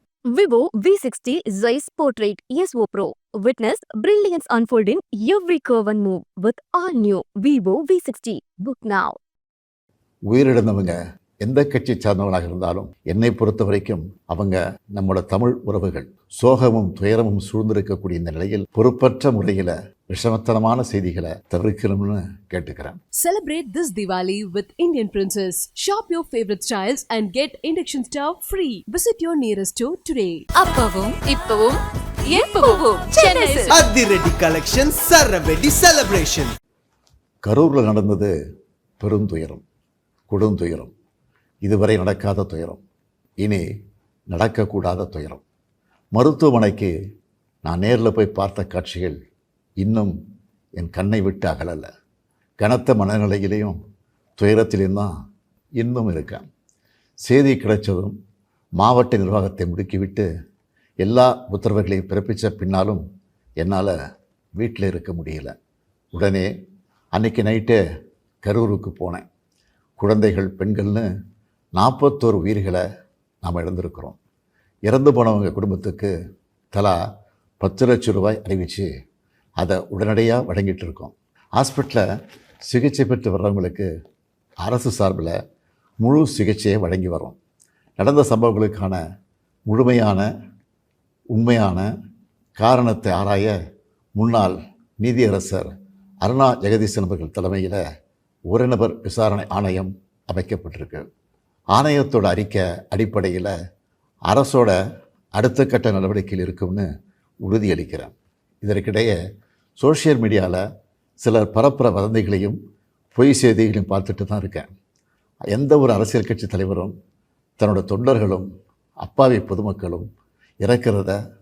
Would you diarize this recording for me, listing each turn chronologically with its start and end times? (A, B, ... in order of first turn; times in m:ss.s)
0:00.3-0:09.2 A
0:10.3-0:23.0 B
0:23.2-0:30.5 C
0:30.6-0:33.8 D
0:33.7-0:36.6 E
0:37.5-0:38.3 B
0:39.0-0:39.6 B
0:40.3-0:40.9 B
0:41.6-0:42.8 B
0:44.3-0:45.4 B
0:46.2-0:46.9 B
0:47.6-0:49.2 B
0:49.8-0:50.1 B
0:50.8-0:51.9 B
0:52.6-0:53.8 B
0:54.4-0:55.1 B
0:55.8-0:56.4 B
0:57.3-0:58.2 B
0:58.8-1:00.3 B
1:01.0-1:03.0 B
1:03.6-1:03.9 B
1:04.6-1:05.5 B
1:06.2-1:06.5 B
1:07.2-1:07.8 B
1:08.4-1:09.2 B
1:10.0-1:11.1 B
1:11.8-1:12.8 B
1:13.4-1:14.2 B
1:14.9-1:16.1 B
1:17.6-1:18.9 B
1:19.6-1:22.0 B
1:22.7-1:23.9 B
1:24.6-1:25.4 B
1:26.0-1:27.4 B
1:28.0-1:29.0 B
1:29.7-1:30.3 B
1:31.3-1:31.9 B
1:32.6-1:33.6 B
1:34.2-1:35.7 B
1:36.2-1:37.8 B
1:38.5-1:41.1 B
1:41.8-1:43.5 B
1:44.3-1:44.8 B
1:45.4-1:46.9 B
1:47.4-1:49.2 B
1:49.8-1:50.6 B
1:51.2-1:52.6 B
1:53.2-1:54.7 B
1:55.5-1:56.9 B
1:57.6-1:58.5 B
1:59.0-2:00.1 B
2:00.6-2:01.2 B